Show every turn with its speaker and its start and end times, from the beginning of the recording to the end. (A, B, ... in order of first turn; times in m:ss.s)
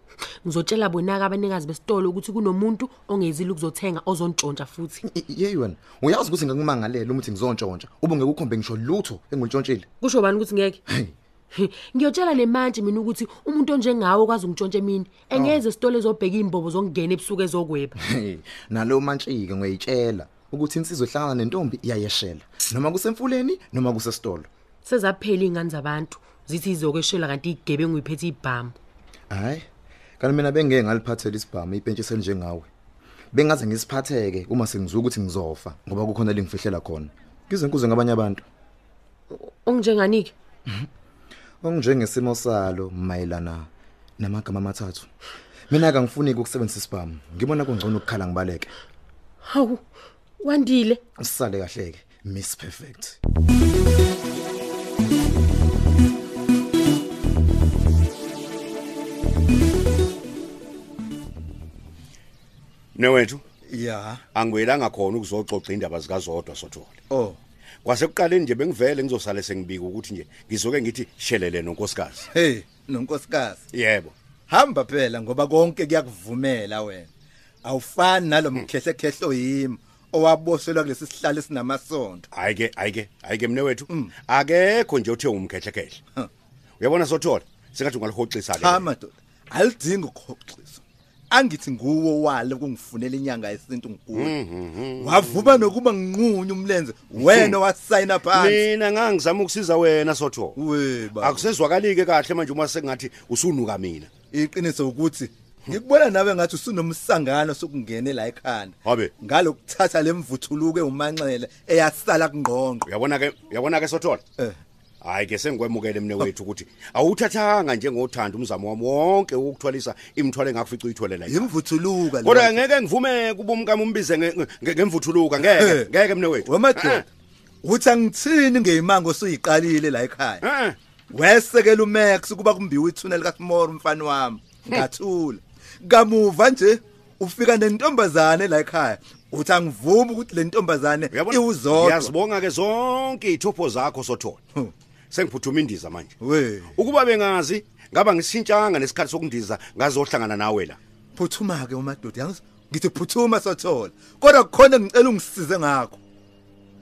0:00.4-0:05.0 A
0:05.0-0:09.9 B
0:10.0-0:10.8 A
0:10.9-0:11.1 B
0:11.5-0:17.9 A
0:15.3-0:15.6 B
0:18.1-0:24.5 B
0:24.8-0:28.8 A
0:29.3-0:29.7 B
0:30.2-0:32.7 B
0:33.3-0:38.4 B
0:39.3-0:40.3 A
0:41.6-0:45.1 B
0:45.7-0:48.7 B
0:49.4-0:49.8 A
0:50.4-0:51.0 A
0:51.2-0:53.2 B
1:03.0-1:03.4 C
1:03.7-1:04.2 D
1:04.4-1:07.0 C
1:07.1-1:07.4 D
1:07.8-1:12.3 C
1:12.3-1:13.6 D
1:13.7-1:14.1 C
1:14.5-1:17.1 D
1:17.6-1:22.2 D
1:22.3-1:26.0 C
1:26.8-1:28.9 C
1:28.6-1:34.3 D
1:34.1-1:35.7 C
1:35.0-1:38.6 D
1:37.2-1:37.6 C
1:38.2-1:40.6 C
1:40.6-1:41.4 D
1:41.2-1:44.1 C
1:44.3-1:52.8 D
1:48.8-1:49.1 C
1:52.9-1:54.2 C
1:55.0-2:01.5 C
2:01.3-2:02.6 D
2:02.2-2:07.0 C
2:05.4-2:05.9 D
2:06.4-2:07.0 D
2:07.6-2:10.4 D
2:10.4-2:10.8 C
2:11.1-2:22.1 D
2:21.1-2:24.4 C
2:25.1-2:26.1 C
2:26.2-2:26.7 D
2:26.8-2:30.8 C
2:31.2-2:36.0 D